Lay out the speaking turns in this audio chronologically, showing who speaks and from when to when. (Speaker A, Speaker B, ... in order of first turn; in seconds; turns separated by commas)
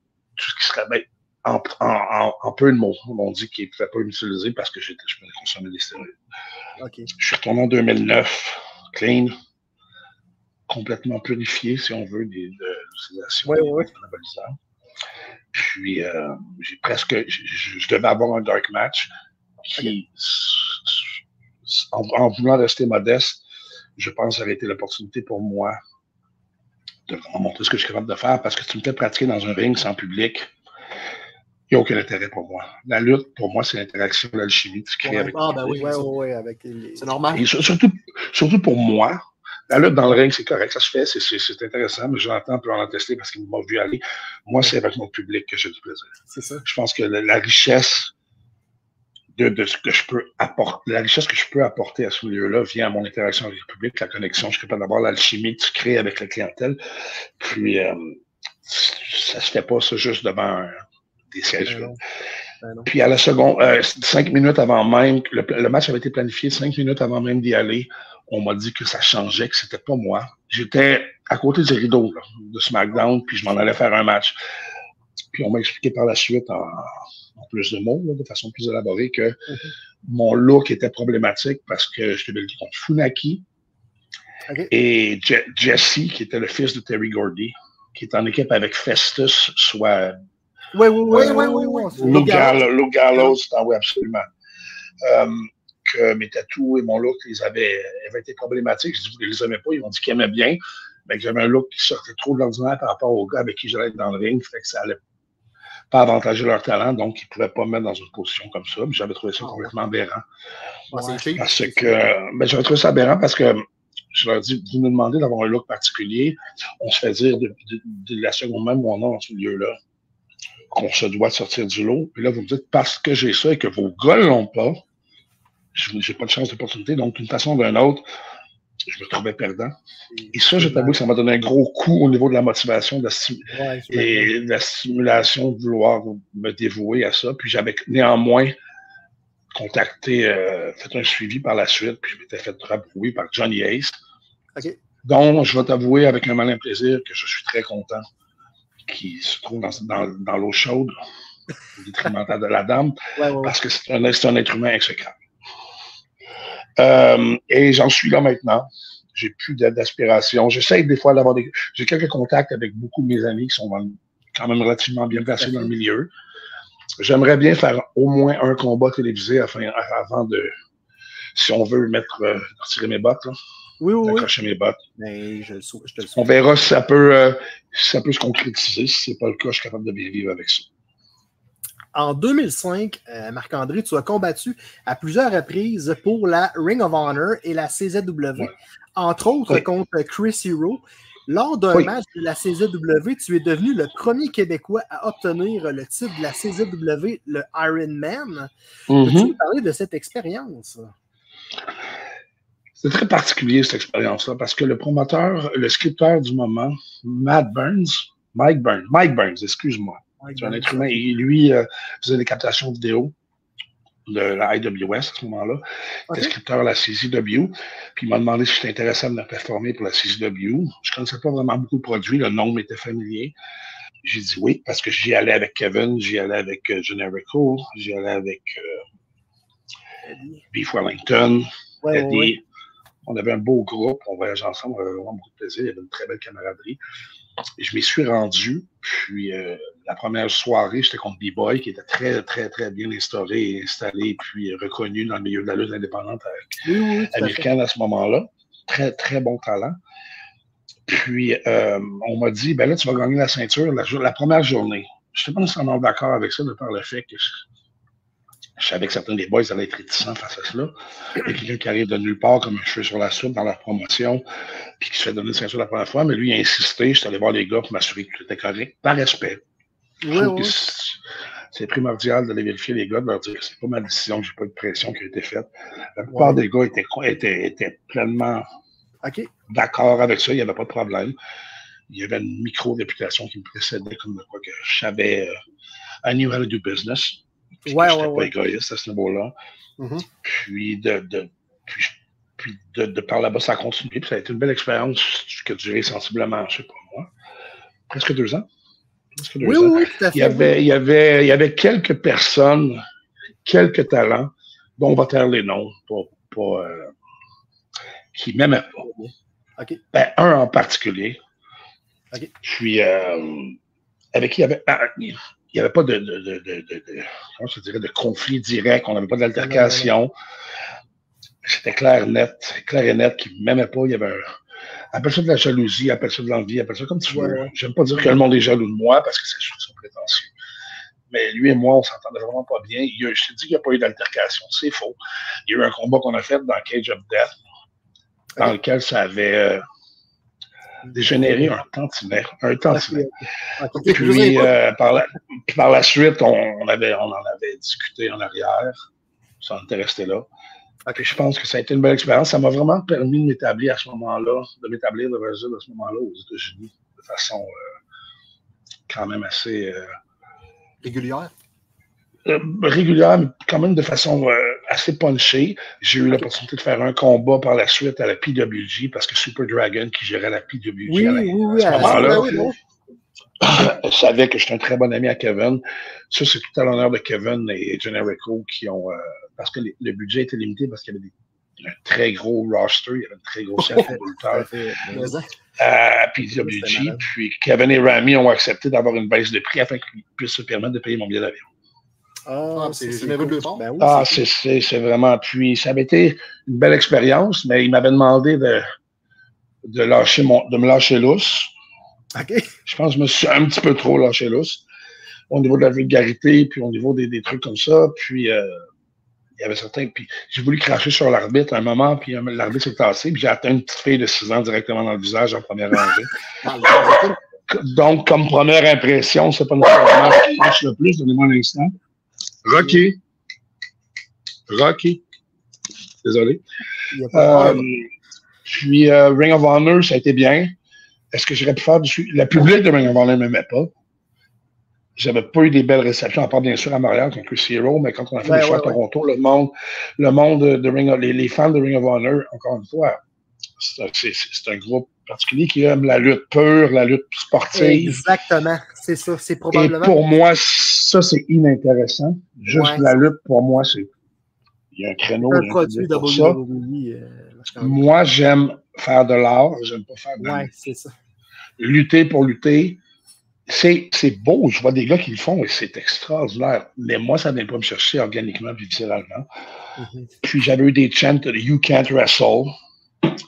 Speaker A: 0.4-6.1, Speaker B: 6.8-7.1, Speaker A: 7.2-9.3, Speaker A: 10.7-14.6, Speaker B: 13.4-13.9, Speaker A: 15.5-19.1, Speaker A: 19.7-21.1, Speaker A: 21.6-23.4, Speaker A: 24.0-25.8, Speaker A: 27.1-30.5, Speaker A: 31.7-35.4, Speaker B: 35.0-37.1, Speaker C: 35.3-36.0, Speaker C: 37.0-37.4, Speaker A: 37.3-46.1, Speaker B: 46.3-46.6, Speaker A: 46.6-48.1, Speaker A: 49.4-56.8, Speaker A: 57.4-62.0, Speaker B: 61.6-62.0, Speaker B: 62.6-62.9, Speaker A: 62.9-74.3, Speaker A: 75.3-79.4, Speaker A: 80.0-83.4, Speaker A: 84.7-90.2, Speaker B: 90.7-92.6, Speaker A: 91.1-94.3, Speaker C: 91.1-92.6, Speaker A: 95.0-105.0, Speaker A: 105.9-110.2, Speaker C: 109.4-109.7, Speaker C: 110.9-111.4, Speaker B: 110.9-111.8, Speaker A: 111.3-119.8, Speaker A: 120.7-124.8, Speaker A: 125.7-128.1, Speaker A: 128.8-129.7, Speaker B: 130.1-131.0, Speaker A: 130.3-138.6, Speaker B: 133.5-134.3, Speaker A: 139.5-144.0, Speaker A: 145.0-148.0, Speaker A: 148.8-150.9, Speaker A: 151.8-155.2, Speaker B: 153.2-153.6, Speaker A: 156.8-166.1, Speaker B: 165.2-165.7, Speaker A: 167.0-170.5, Speaker A: 171.3-173.4, Speaker B: 173.8-174.3, Speaker A: 174.0-174.8, Speaker B: 175.0-176.3, Speaker A: 176.1-180.7, Speaker B: 181.9-198.5, Speaker A: 198.9-199.3, Speaker B: 199.0-200.9, Speaker A: 202.8-213.1, Speaker B: 210.2-211.0, Speaker A: 214.1-223.3, Speaker A: 224.0-228.8, Speaker B: 230.1-230.4, Speaker A: 230.5-232.4, Speaker B: 231.8-232.3, Speaker A: 233.0-236.8, Speaker A: 237.6-246.5, Speaker B: 246.6-247.4, Speaker A: 247.1-249.8, Speaker A: 250.9-257.3, Speaker A: 258.6-264.2, Speaker A: 264.8-269.4, Speaker B: 270.0-270.7, Speaker A: 270.1-271.0, Speaker A: 271.5-278.4, Speaker B: 276.1-276.4, Speaker B: 279.0-279.3, Speaker A: 279.5-281.1, Speaker A: 281.9-285.4, Speaker A: 286.0-289.3, Speaker B: 287.6-288.3, Speaker C: 289.8-290.1, Speaker A: 290.2-297.1, Speaker A: 297.9-298.4, Speaker A: 299.2-302.8, Speaker B: 299.4-300.6, Speaker A: 303.4-306.9, Speaker A: 308.1-308.9, Speaker B: 308.9-309.8, Speaker A: 309.9-311.2, Speaker A: 312.4-313.6, Speaker A: 314.1-320.1, Speaker B: 319.4-319.9, Speaker A: 321.4-324.3, Speaker A: 324.9-330.3, Speaker B: 327.1-327.5, Speaker A: 331.1-337.3, Speaker A: 338.4-339.6, Speaker B: 340.8-341.5, Speaker A: 340.9-343.1, Speaker B: 342.7-344.3, Speaker C: 343.7-344.5, Speaker A: 343.9-348.8, Speaker A: 349.4-350.3, Speaker A: 350.9-357.5, Speaker A: 358.9-359.9, Speaker C: 360.8-361.3, Speaker A: 362.2-372.4, Speaker B: 370.9-372.6, Speaker C: 371.7-372.5, Speaker A: 373.4-384.5, Speaker B: 383.6-385.1, Speaker C: 384.9-385.3, Speaker A: 385.6-391.5, Speaker B: 386.2-387.1, Speaker B: 392.2-394.2, Speaker C: 392.5-393.6, Speaker A: 393.8-398.6, Speaker A: 399.6-401.5, Speaker B: 402.1-402.5, Speaker A: 402.6-404.6, Speaker A: 405.3-408.6, Speaker A: 409.4-416.1, Speaker C: 416.4-417.2, Speaker A: 416.7-421.7, Speaker A: 422.4-423.0, Speaker A: 424.5-425.0, Speaker A: 426.0-426.4, Speaker B: 426.9-427.7, Speaker A: 427.1-427.9, Speaker A: 428.4-430.6, Speaker A: 431.1-433.7, Speaker A: 434.9-443.0, Speaker B: 438.2-438.8, Speaker A: 443.6-448.0, Speaker B: 447.5-450.0, Speaker A: 449.5-453.9, Speaker B: 452.5-453.0, Speaker A: 454.7-456.4, Speaker B: 455.2-457.8, Speaker A: 457.6-460.5, Speaker B: 460.2-460.9, Speaker A: 461.6-462.8, Speaker A: 463.5-469.3, Speaker B: 469.8-470.1, Speaker A: 470.2-472.5